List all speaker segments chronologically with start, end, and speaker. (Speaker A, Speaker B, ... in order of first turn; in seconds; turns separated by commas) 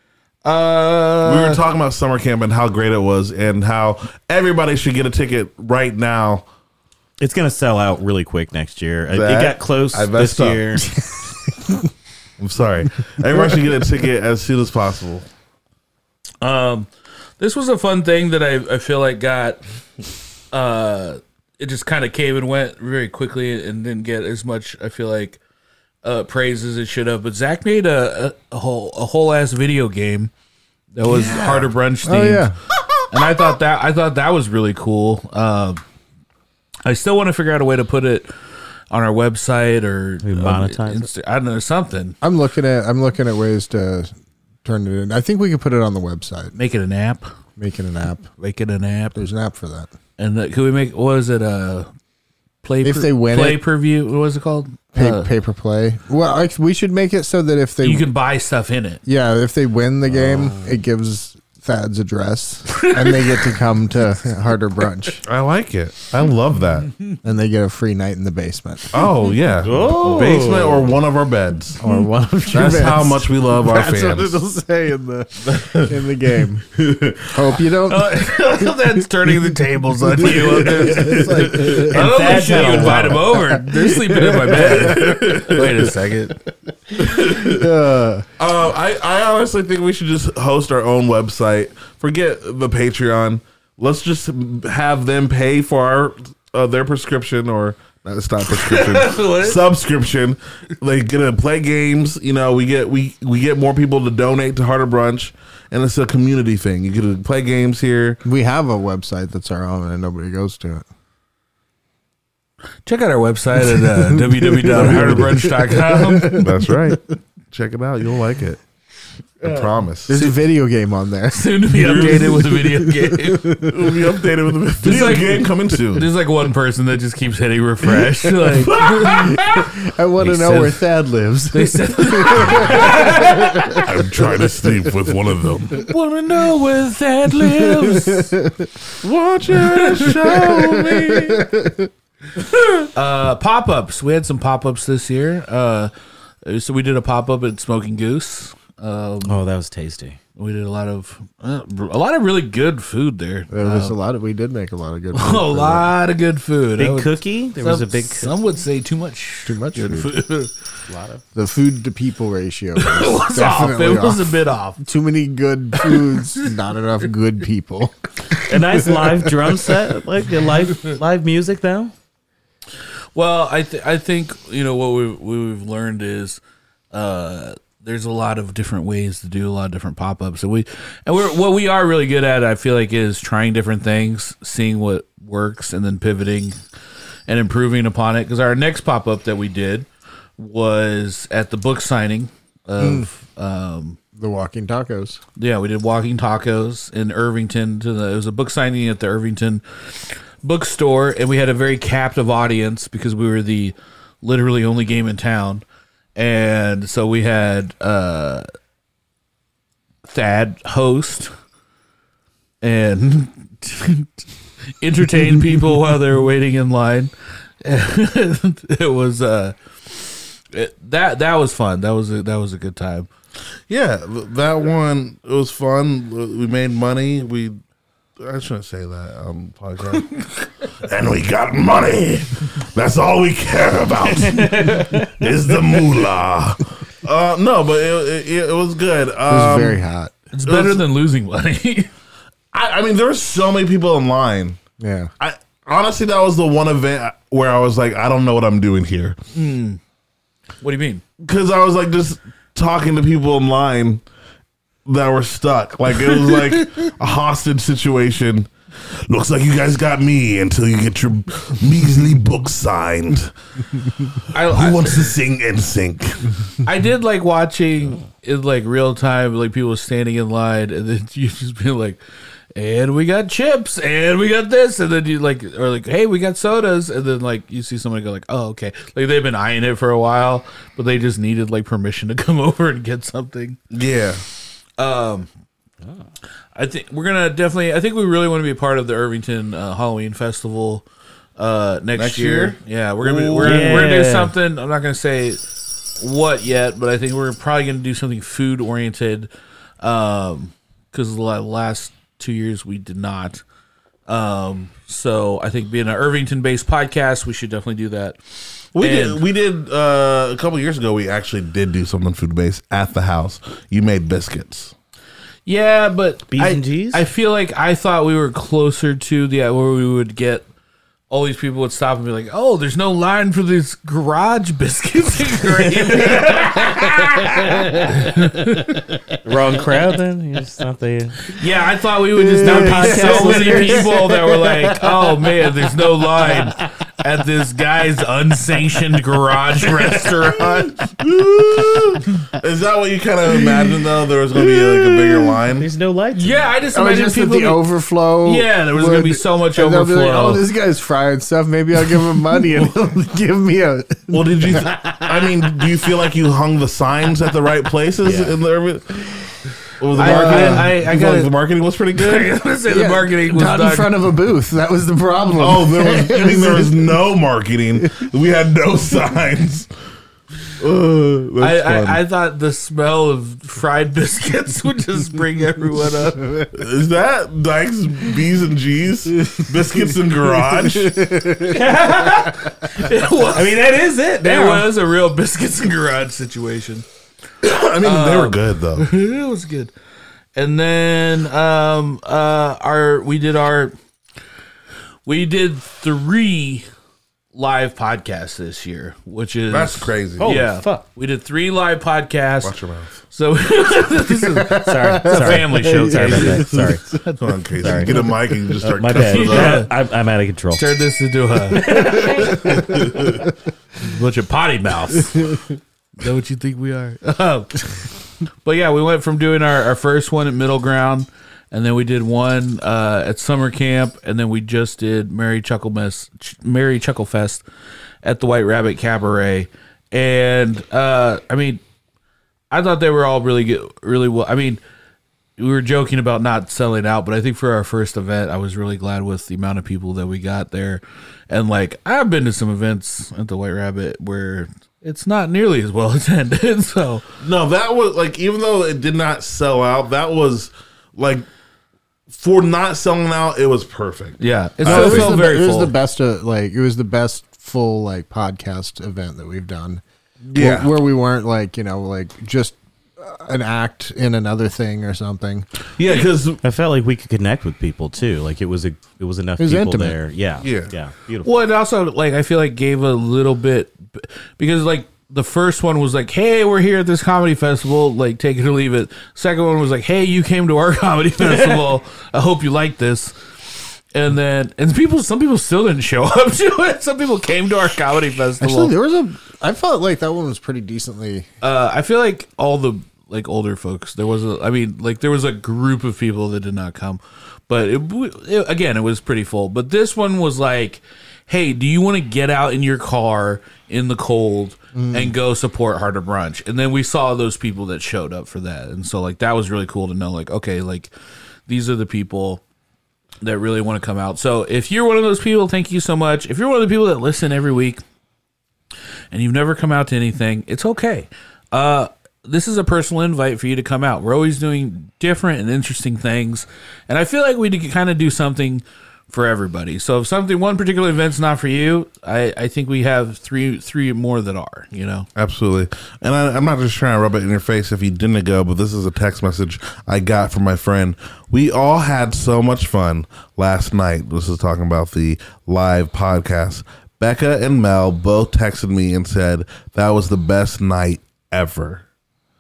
Speaker A: 0.4-1.6, Speaker B: 1.2-6.5, Speaker C: 7.2-11.0, Speaker B: 9.1-10.8, Speaker B: 12.4-15.3, Speaker A: 16.4-19.6, Speaker A: 20.5-25.4, Speaker A: 26.0-30.3, Speaker A: 30.9-32.5, Speaker B: 31.3-31.6, Speaker D: 32.0-32.6, Speaker A: 33.1-35.8, Speaker A: 36.9-38.3, Speaker A: 38.9-42.1, Speaker C: 40.2-41.1, Speaker D: 42.2-44.1, Speaker D: 44.6-46.5, Speaker A: 46.5-47.3, Speaker D: 47.6-48.3, Speaker A: 48.4-49.3, Speaker D: 49.1-49.9, Speaker A: 50.2-51.9, Speaker A: 52.6-55.3, Speaker D: 52.8-53.6, Speaker D: 55.0-58.1, Speaker A: 57.8-59.0, Speaker D: 59.1-65.2, Speaker C: 60.2-60.8, Speaker A: 62.7-63.3, Speaker B: 65.2-67.0, Speaker D: 67.2-69.0, Speaker B: 68.9-71.8, Speaker C: 69.6-71.0, Speaker D: 71.8-76.7, Speaker B: 72.5-74.4, Speaker B: 75.5-76.0, Speaker B: 76.8-77.5, Speaker D: 77.3-78.9, Speaker A: 77.9-86.4, Speaker D: 80.1-85.3, Speaker B: 80.2-81.8, Speaker C: 81.9-83.2, Speaker B: 84.4-85.9, Speaker B: 87.0-87.7, Speaker D: 87.0-88.3, Speaker B: 88.4-108.2, Speaker A: 98.5-99.6, Speaker D: 108.2-110.9, Speaker A: 112.9-116.5, Speaker D: 113.7-116.7, Speaker B: 114.7-115.3, Speaker B: 116.3-118.6, Speaker B: 119.4-120.2, Speaker D: 120.1-124.0, Speaker A: 121.3-123.7, Speaker B: 121.8-122.3, Speaker B: 123.7-126.1, Speaker A: 124.8-129.4, Speaker D: 128.5-133.8, Speaker B: 128.6-129.6, Speaker A: 130.2-130.8, Speaker A: 131.5-133.8, Speaker B: 132.5-132.9, Speaker B: 133.8-135.9, Speaker A: 135.7-138.3, Speaker D: 137.4-138.7, Speaker B: 139.0-141.5, Speaker A: 139.7-140.1, Speaker D: 139.9-141.9, Speaker A: 142.9-145.9, Speaker A: 146.4-149.4, Speaker C: 149.2-150.2, Speaker A: 150.4-153.9, Speaker D: 153.5-155.9, Speaker A: 155.1-160.5, Speaker C: 156.8-158.3, Speaker D: 159.5-160.1, Speaker C: 160.9-161.2, Speaker D: 161.3-167.9, Speaker A: 162.8-164.8, Speaker A: 165.8-166.2, Speaker C: 168.5-171.9, Speaker D: 168.8-169.5, Speaker A: 173.2-176.4, Speaker A: 176.9-186.6, Speaker A: 187.3-189.9, Speaker A: 190.4-194.0, Speaker D: 192.8-193.1, Speaker D: 194.2-195.2, Speaker A: 195.4-205.6, Speaker A: 206.2-208.5, Speaker A: 210.1-211.3, Speaker A: 212.6-214.2, Speaker A: 214.8-223.1, Speaker B: 223.7-227.6, Speaker B: 228.2-230.3, Speaker B: 230.8-239.8, Speaker C: 234.3-235.1, Speaker D: 239.3-240.1, Speaker A: 240.3-241.9, Speaker B: 240.4-240.8, Speaker B: 242.5-244.6, Speaker D: 244.8-245.1, Speaker B: 245.2-249.2, Speaker A: 249.3-249.8, Speaker A: 250.6-251.0, Speaker B: 251.2-254.0, Speaker B: 254.9-258.5, Speaker B: 259.1-266.3, Speaker A: 264.3-265.2, Speaker A: 266.6-272.0, Speaker A: 272.6-283.6, Speaker B: 283.7-284.2, Speaker A: 284.8-285.3, Speaker A: 286.6-290.9, Speaker A: 291.4-295.4, Speaker B: 292.0-293.9, Speaker C: 293.4-294.3, Speaker A: 296.0-299.3, Speaker A: 299.8-303.4, Speaker A: 304.1-308.2, Speaker B: 308.8-314.7, Speaker A: 308.8-309.2, Speaker A: 315.5-320.5, Speaker C: 316.3-317.1, Speaker A: 321.1-328.9, Speaker C: 325.6-327.7, Speaker C: 329.2-331.4, Speaker A: 331.3-340.8, Speaker D: 332.1-334.8, Speaker C: 332.3-334.0, Speaker B: 340.3-345.7, Speaker C: 345.6-346.5, Speaker A: 346.1-347.6, Speaker D: 346.7-355.7, Speaker A: 348.2-350.4, Speaker B: 354.1-359.2, Speaker C: 358.0-358.4, Speaker B: 359.8-362.3, Speaker A: 359.9-361.3, Speaker D: 360.0-360.7, Speaker A: 361.9-364.0, Speaker D: 362.7-367.0, Speaker B: 365.4-369.7, Speaker D: 367.8-368.1, Speaker B: 370.6-372.0, Speaker A: 371.4-376.3, Speaker D: 376.2-376.5, Speaker B: 376.5-381.1, Speaker D: 379.2-382.3, Speaker C: 381.5-384.7, Speaker A: 381.8-383.7, Speaker A: 384.2-386.9, Speaker B: 387.4-388.9, Speaker A: 387.8-389.7, Speaker A: 390.4-393.8, Speaker A: 395.1-396.7, Speaker A: 397.3-402.6, Speaker B: 399.5-400.3, Speaker C: 400.2-400.8, Speaker B: 402.4-403.0, Speaker A: 403.1-407.9, Speaker D: 404.2-406.8, Speaker C: 404.6-406.8, Speaker B: 406.0-409.7, Speaker C: 407.6-408.1, Speaker C: 408.6-410.7, Speaker A: 408.9-409.7, Speaker A: 410.5-413.2, Speaker C: 411.5-412.6, Speaker B: 412.6-413.2, Speaker A: 413.8-415.4, Speaker A: 416.0-417.9, Speaker A: 418.4-427.4, Speaker A: 428.0-431.6, Speaker A: 432.5-434.6, Speaker A: 435.4-447.1, Speaker B: 447.2-451.3, Speaker B: 452.1-455.2, Speaker A: 454.2-455.7, Speaker D: 454.6-459.8, Speaker B: 460.3-460.7, Speaker D: 460.4-465.5, Speaker B: 465.8-466.4, Speaker C: 466.4-471.3, Speaker D: 469.4-470.0, Speaker B: 470.4-470.7, Speaker A: 471.2-483.2, Speaker C: 481.2-481.6, Speaker A: 483.9-488.7, Speaker D: 488.4-491.3, Speaker A: 491.4-510.9, Speaker D: 504.7-505.1, Speaker A: 511.5-512.4, Speaker A: 513.2-517.8, Speaker A: 519.1-535.1, Speaker B: 535.1-551.8